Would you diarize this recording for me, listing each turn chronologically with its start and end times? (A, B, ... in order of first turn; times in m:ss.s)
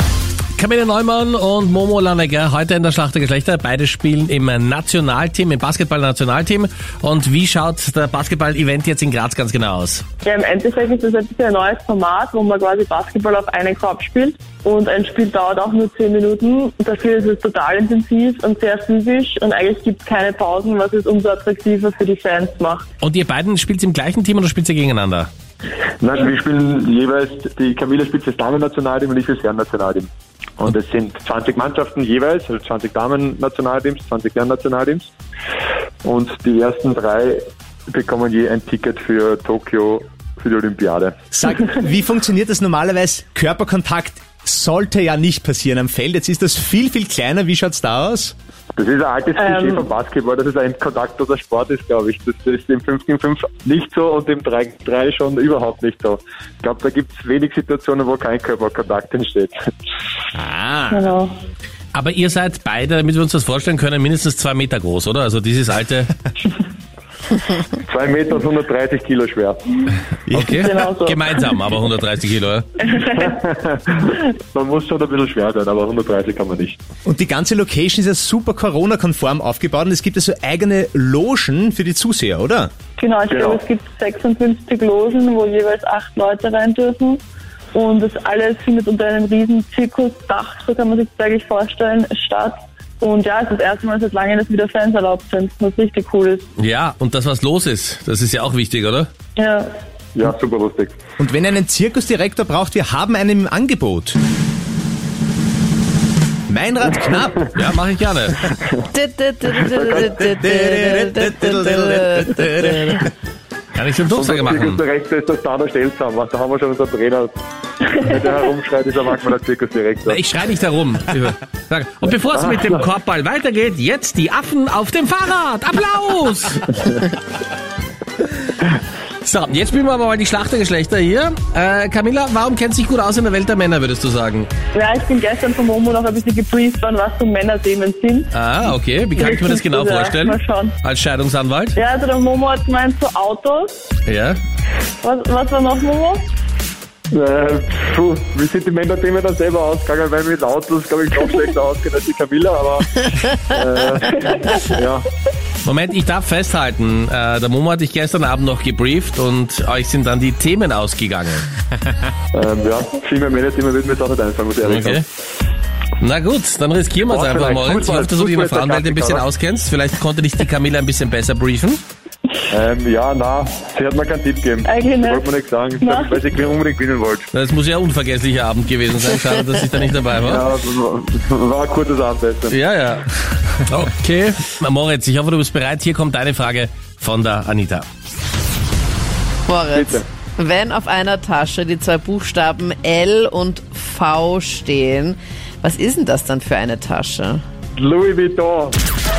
0:00.6-0:10.0 A
0:10.2-0:22.8 B
0:23.0-0:25.3 A
0:26.0-0:35.1 C
0:36.0-0:41.2 C
0:41.3-0:48.3 D
0:48.8-0:59.6 C
0:49.4-0:49.8 B
1:00.3-1:01.0 D
1:00.9-1:01.3 B
1:01.9-1:06.1 A
1:07.8-1:09.9 C
1:10.3-1:10.6 D
1:10.3-1:12.8 A
1:10.5-1:11.5 B
1:12.9-1:16.8 C
1:17.0-1:22.7 D
1:23.0-1:27.2 B
1:23.3-1:23.6 C
1:27.7-1:36.5 B
1:36.6-1:39.1 A
1:39.4-1:39.7 B
1:40.2-1:41.0 C
1:41.2-1:44.2 D
1:46.5-1:47.4 D
1:47.6-1:48.5 A
1:48.5-1:48.8 C
1:48.9-1:53.1 E
1:49.6-1:50.0 C
1:49.9-1:53.1 D
1:53.8-1:54.8 A
1:54.2-2:00.2 C
2:00.1-2:07.0 A
2:02.3-2:02.8 C
2:09.2-2:14.5 A
2:14.7-2:18.3 B
2:18.3-2:21.8 A
2:19.2-2:20.8 B
2:21.8-2:23.8 B
2:24.1-2:24.4 A
2:25.0-2:26.2 B
2:27.1-2:35.1 C
2:35.6-2:41.5 A
2:42.3-2:45.0 C
2:44.6-2:45.0 A
2:46.0-2:51.8 A
2:47.0-2:49.3 C
2:52.5-2:57.3 C
2:54.6-2:56.3 B
2:57.3-3:00.5 A
3:00.2-3:02.6 C
3:02.5-3:03.1 A
3:03.7-3:07.8 A
3:09.5-3:17.4 E
3:09.7-3:10.0 C
3:17.8-3:18.8 C